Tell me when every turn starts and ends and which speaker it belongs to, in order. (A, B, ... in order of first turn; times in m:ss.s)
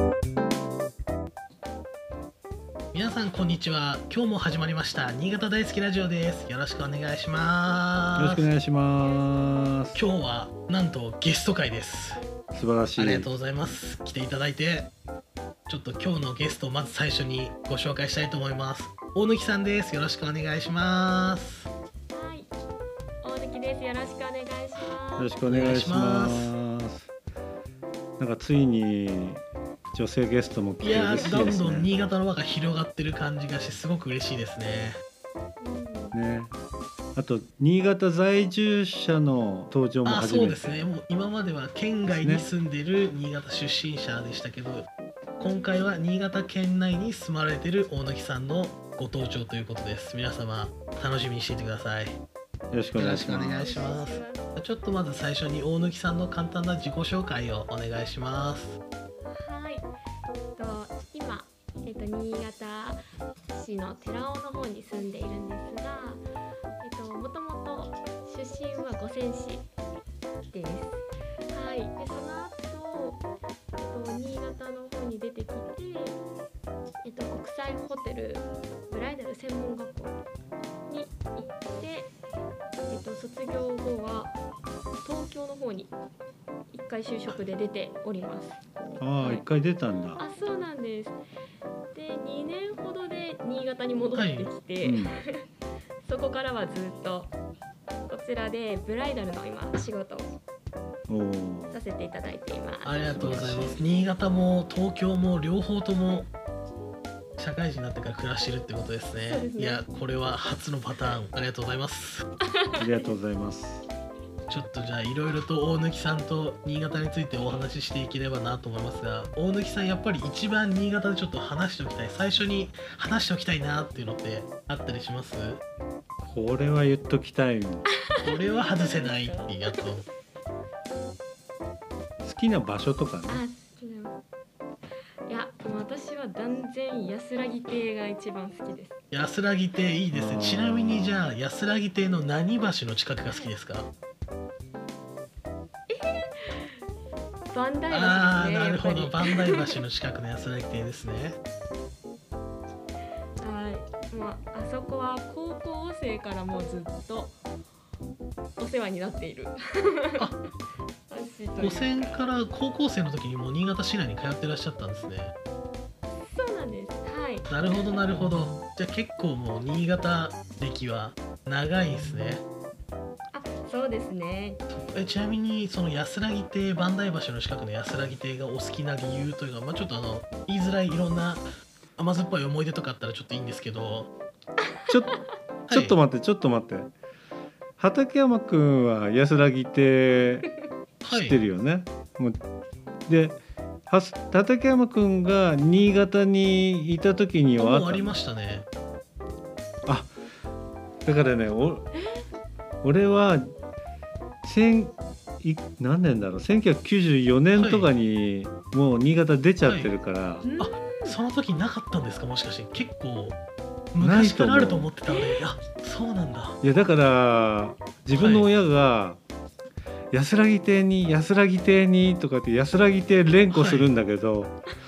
0:02.9-0:08.5 A
0:08.2-0:10.0 B
0:09.9-0:12.2 A
0:12.5-0:13.3 B
0:13.0-0:14.9 A
0:15.7-0:21.7 A
0:22.1-0:22.5 C
0:23.2-0:25.3 C
0:25.2-0:27.1 B
0:25.4-0:26.5 A
0:28.2-0:31.9 B
0:30.8-0:35.0 A
0:31.0-0:31.5 C
0:35.6-0:36.2 C
0:36.1-0:36.5 B
0:37.1-0:40.8 B
0:40.0-0:44.8 A
0:42.1-0:42.4 B
0:45.4-0:46.1 C
0:45.4-0:52.2 A
0:52.7-0:53.8 B
0:53.0-0:58.8 A
0:53.6-0:54.4 C
0:59.2-0:59.9 C
1:00.5-1:06.2 C
1:06.8-1:09.7 C
1:10.5-1:13.2 C
1:13.8-1:16.2 C
1:17.0-1:20.2 C
1:20.9-1:22.1 C
1:22.9-1:24.4 C
1:25.0-1:25.9 C
1:26.7-1:28.6 C
1:29.0-1:30.2 B
1:29.2-1:29.5 C
1:30.2-1:31.2 C
1:31.9-1:35.4 C
1:34.1-1:34.5 A
1:34.8-1:35.2 B
1:36.0-1:37.3 C
1:38.0-1:40.3 C
1:41.1-1:41.8 B
1:41.7-1:43.2 C
1:42.8-1:46.3 A
1:43.1-1:43.8 B
1:47.4-1:52.3 A
1:49.2-1:49.8 C
1:52.4-1:53.1 C
1:52.8-1:53.9 B
1:54.5-2:05.6 A
2:06.2-2:07.9 B
2:08.1-2:09.8 C
2:08.2-2:10.0 A
2:12.2-2:13.4 B
2:13.3-2:14.2 C
2:15.3-2:18.9 C
2:19.1-2:23.9 A
2:20.1-2:21.3 B
2:23.2-2:23.5 C
2:25.9-2:26.8 C
2:27.5-2:29.8 C
2:27.9-2:31.4 A
2:33.4-2:37.3 C
2:38.6-2:40.3 C
2:41.1-2:42.2 C
2:41.6-2:45.3 A
2:46.1-2:48.5 C
2:47.5-2:52.4 A
2:53.3-2:54.6 C
2:54.9-3:04.1 A
3:04.9-3:05.2 B
3:05.7-3:06.0 A
3:05.7-3:06.9 B
3:07.8-3:10.5 B
3:11.0-3:11.4 A
3:11.0-3:12.4 B
3:13.1-3:18.2 B
3:17.6-3:18.6 A
3:19.9-3:20.1 B
3:21.0-3:21.9 B
3:21.9-3:22.3 C
3:22.8-3:23.5 B
3:24.4-3:30.5 B
3:27.5-3:27.9 A
3:29.6-3:29.9 A
3:30.4-3:31.2 C
3:30.6-3:33.4 A
3:33.9-3:36.6 A
3:34.0-3:34.9 B
3:35.1-3:35.4 C
3:36.6-3:39.2 B
3:38.1-3:38.5 A
3:40.1-3:44.6 B
3:43.5-3:43.9 A